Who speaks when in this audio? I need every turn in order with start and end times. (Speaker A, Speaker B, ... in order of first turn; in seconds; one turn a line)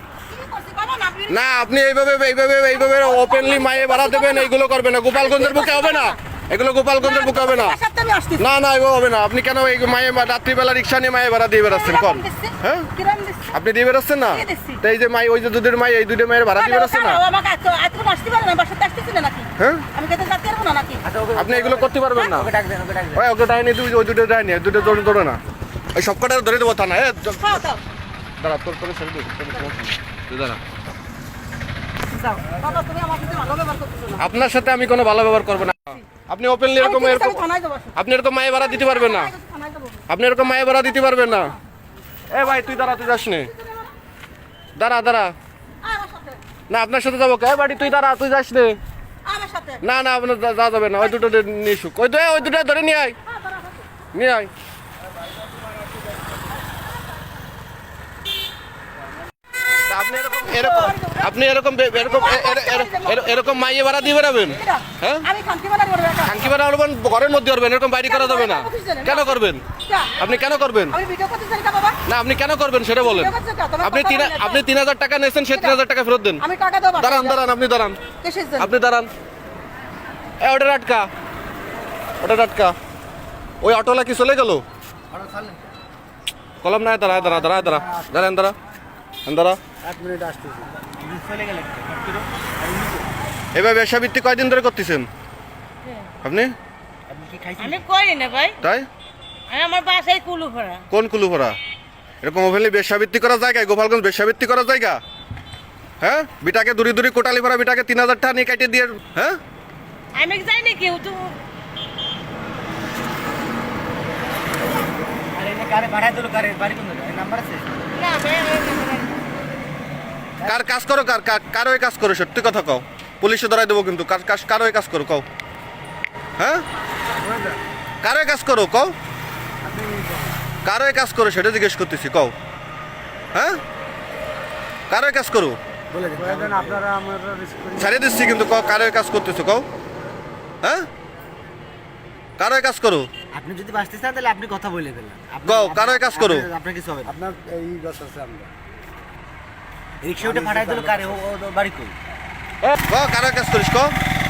Speaker A: 0.3-1.4
Speaker B: 1.3-7.8
Speaker A: 2.7-4.5
Speaker A: 5.1-6.2
Speaker A: 7.0-8.4
Speaker B: 8.4-12.9
Speaker A: 11.6-13.5
Speaker B: 13.5-17.2
Speaker A: 14.3-14.8
Speaker A: 16.5-21.0
Speaker B: 19.6-19.8
Speaker C: 21.0-23.2
Speaker B: 21.4-22.5
Speaker B: 23.1-25.4
Speaker B: 25.9-27.6
Speaker A: 27.4-27.8
Speaker B: 28.4-30.6
Speaker A: 32.1-34.2
Speaker B: 34.2-37.4
Speaker A: 36.8-38.0
Speaker B: 38.0-39.3
Speaker A: 38.5-40.0
Speaker B: 40.1-41.5
Speaker A: 41.1-41.6
Speaker B: 42.3-43.5
Speaker A: 42.4-43.9
Speaker B: 44.8-45.3
Speaker A: 45.8-46.4
Speaker B: 46.7-48.8
Speaker A: 49.2-49.8
Speaker B: 49.8-53.2
Speaker A: 53.3-53.9
Speaker B: 54.1-54.5
Speaker B: 59.9-65.2
Speaker A: 60.3-61.3
Speaker A: 62.0-66.5
Speaker B: 66.2-69.6
Speaker A: 68.0-70.1
Speaker B: 70.2-71.0
Speaker A: 70.9-72.0
Speaker B: 72.1-76.4
Speaker A: 73.0-74.6
Speaker A: 75.5-75.8
Speaker A: 76.4-77.4
Speaker B: 77.0-78.0
Speaker A: 78.2-78.7
Speaker B: 78.6-79.1
Speaker B: 80.4-81.1
Speaker B: 82.2-82.8
Speaker B: 83.6-84.6
Speaker C: 85.1-85.7
Speaker B: 86.6-88.6
Speaker B: 89.2-89.6
Speaker D: 89.8-90.7
Speaker C: 90.9-92.3
Speaker B: 93.5-95.1
Speaker B: 96.2-96.5
Speaker C: 97.1-97.8
Speaker E: 97.6-98.6
Speaker B: 98.6-98.9
Speaker E: 99.5-100.8
Speaker B: 100.9-101.5
Speaker B: 102.2-105.0
Speaker B: 106.0-109.4
Speaker E: 110.1-111.3
Speaker C: 115.3-117.7
Speaker E: 117.9-119.3
Speaker B: 120.4-125.2
Speaker B: 126.4-126.6
Speaker D: 127.2-127.6
Speaker B: 128.0-128.9
Speaker D: 129.6-130.3
Speaker B: 130.6-132.3
Speaker B: 133.3-133.6
Speaker B: 134.9-135.6
Speaker C: 135.9-136.8
Speaker D: 136.1-137.9
Speaker B: 137.8-139.7
Speaker B: 142.4-143.1
Speaker C: 143.3-147.2
Speaker B: 145.4-146.5
Speaker D: 147.1-148.5
Speaker C: 150.0-151.9
Speaker D: 150.2-151.3
Speaker B: 152.6-153.9